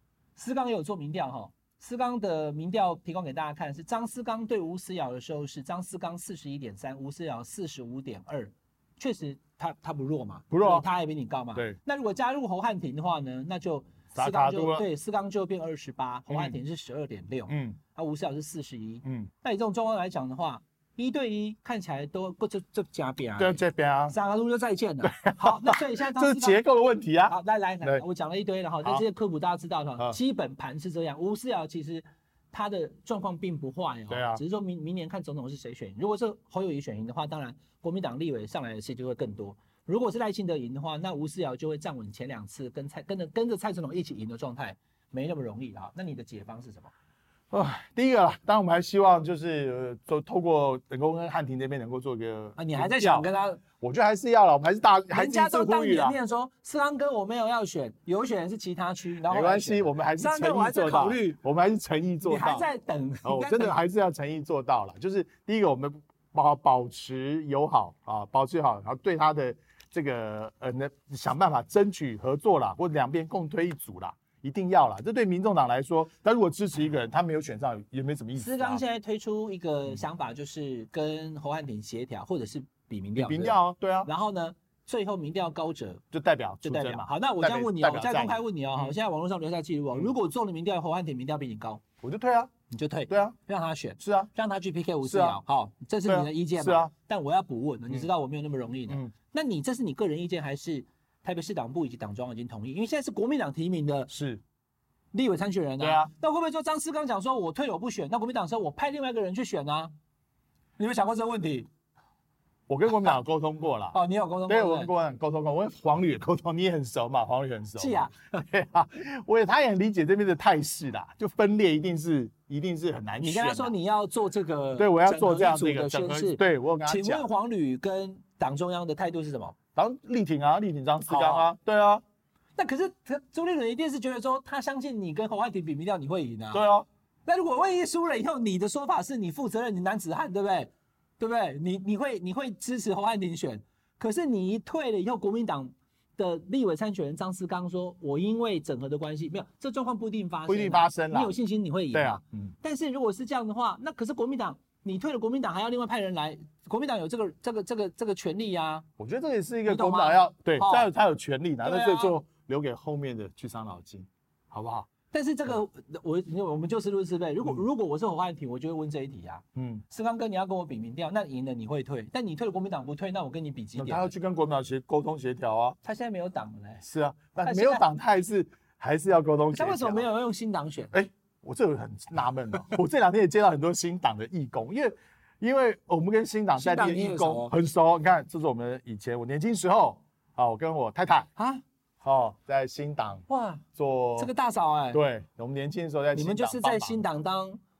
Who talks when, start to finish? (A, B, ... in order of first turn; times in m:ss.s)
0:00.4-0:26.6 A
0:10.5-0:10.9 B
0:14.1-0:14.9 B
0:16.3-0:16.6 B
0:17.5-0:17.8 B
0:19.0-0:19.3 B
0:23.4-0:24.2 B
0:25.0-0:28.0 B
0:27.3-0:46.9 A
0:34.1-0:34.4 B
0:47.5-0:53.3 B
0:52.6-0:53.6 A
0:53.8-0:56.2 B
0:55.1-1:01.4 A
0:59.2-1:02.7 B
1:02.2-1:03.8 A
1:03.2-1:18.8 B
1:18.4-1:26.0 A
1:23.2-1:24.1 B
1:26.1-1:29.0 B
1:26.6-1:31.8 A
1:32.0-1:32.5 B
1:32.7-1:44.1 A
1:33.1-1:33.4 B
1:34.0-1:34.3 B
1:35.0-1:35.4 B
1:36.1-1:36.9 B
1:44.1-1:44.4 B
1:45.1-1:49.9 A
1:45.8-1:46.1 B
1:50.8-1:51.7 A
1:52.7-2:03.7 B
1:53.9-1:54.9 A
1:57.8-1:58.4 A
2:03.2-2:09.6 A
2:04.8-2:07.3 B
2:09.8-2:12.0 B
2:11.1-2:11.5 A
2:12.6-2:16.6 A
2:16.5-2:16.9 B
2:17.3-2:38.8 A
2:30.5-2:31.4 B
2:31.9-2:32.6 B
2:39.0-2:44.9 B
2:39.7-2:40.9 A
2:41.6-2:42.2 A
2:45.1-2:54.1 A
2:49.6-2:49.8 B
2:53.8-2:55.8 B
2:55.8-2:56.8 A
2:56.8-3:00.1 B
2:57.4-2:57.8 A
2:59.5-3:00.9 A
3:00.9-3:11.3 B
3:06.6-3:07.6 A
3:11.4-3:11.6 A
3:12.0-3:14.3 B
3:13.3-3:13.6 A
3:14.2-3:15.0 A
3:14.9-3:17.0 B
3:16.1-3:17.6 A